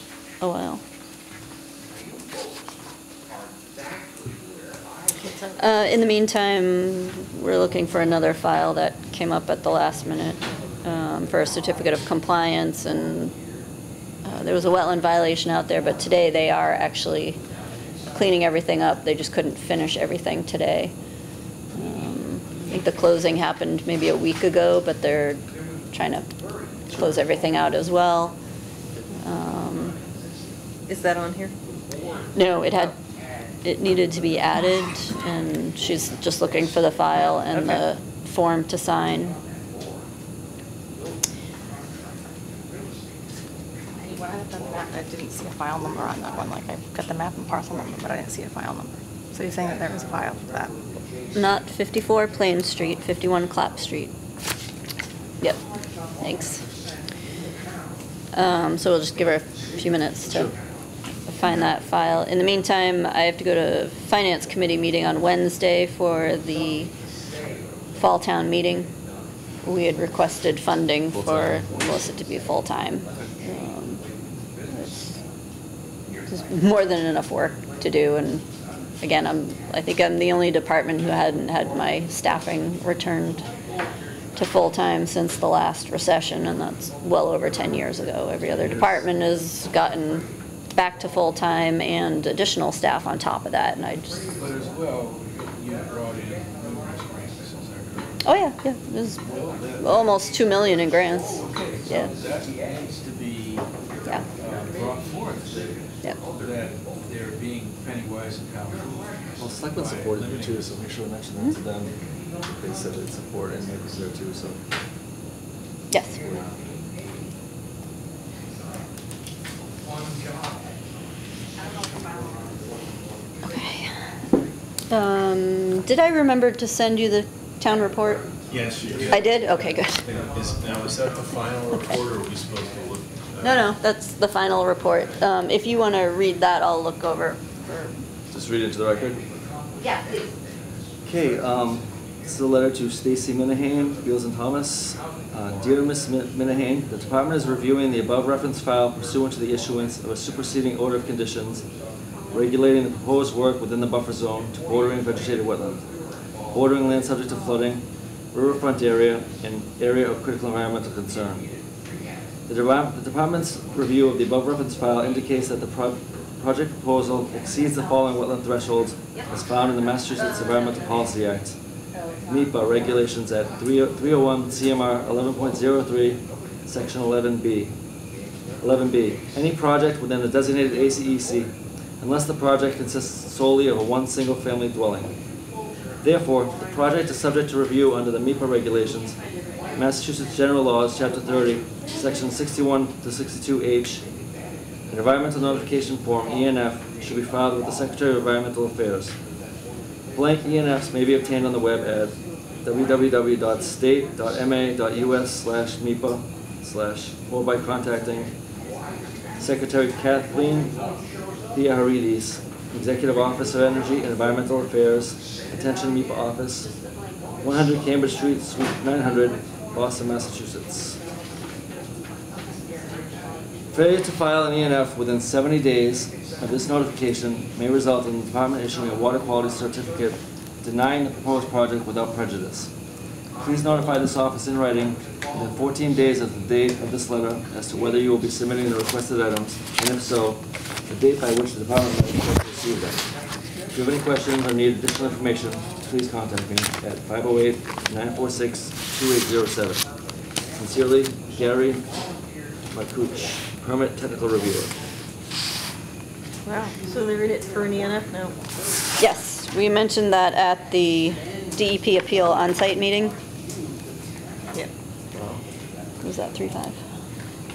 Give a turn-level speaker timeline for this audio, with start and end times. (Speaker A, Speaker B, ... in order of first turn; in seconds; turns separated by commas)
Speaker A: 0.4-0.8, Speaker B: 5.1-5.6, Speaker A: 5.6-13.3, Speaker A: 14.2-17.4, Speaker A: 18.1-20.9, Speaker A: 21.7-26.3, Speaker A: 26.9-28.4, Speaker A: 29.1-30.0, Speaker B: 30.9-31.5, Speaker A: 32.3-33.0, Speaker A: 33.6-39.4, Speaker B: 37.5-37.8, Speaker C: 44.0-50.7, Speaker A: 51.3-54.1, Speaker A: 56.2-56.6, Speaker A: 58.3-60.5, Speaker D: 60.3-60.5, Speaker A: 61.2-66.9, Speaker A: 67.9-68.9, Speaker A: 69.6-74.1, Speaker D: 71.1-72.1, Speaker A: 74.7-75.2, Speaker A: 76.2-78.4, Speaker A: 79.0-83.5, Speaker A: 84.3-94.3, Speaker D: 88.5-89.0, Speaker E: 94.3-98.2, Speaker A: 98.2-99.2, Speaker E: 99.2-100.2, Speaker A: 99.8-102.1, Speaker E: 101.4-103.7, Speaker E: 104.3-109.2, Speaker D: 109.4-112.0, Speaker E: 110.1-110.8, Speaker D: 112.5-114.6, Speaker A: 115.9-116.2, Speaker D: 116.2-116.6, Speaker C: 121.5-122.6, Speaker A: 123.4-123.9, Speaker A: 124.9-128.3, Speaker F: 128.5-133.7, Speaker E: 128.5-129.1, Speaker D: 128.8-129.2, Speaker A: 129.1-130.1, Speaker A: 133.4-137.9, Speaker D: 138.3-139.2, Speaker C: 139.8-140.3, Speaker D: 141.0-151.7, Speaker D: 152.3-155.9, Speaker D: 156.5-161.5, Speaker D: 162.5-171.6, Speaker C: 170.1-171.1, Speaker C: 171.9-172.9, Speaker D: 172.2-177.7, Speaker D: 178.6-185.2, Speaker D: 186.0-189.2, Speaker D: 189.7-194.1, Speaker D: 194.9-199.2, Speaker D: 200.1-208.3, Speaker D: 209.4-210.9, Speaker E: 210.7-211.0, Speaker D: 211.5-216.7, Speaker D: 217.4-221.0, Speaker C: 221.9-223.7, Speaker D: 223.7-232.7, Speaker D: 233.4-243.1, Speaker D: 243.7-249.9, Speaker D: 250.5-251.9, Speaker D: 252.7-254.8, Speaker C: 256.5-256.7, Speaker B: 256.5-258.4, Speaker A: 259.0-263.1, Speaker D: 265.1-265.4, Speaker A: 266.0-266.8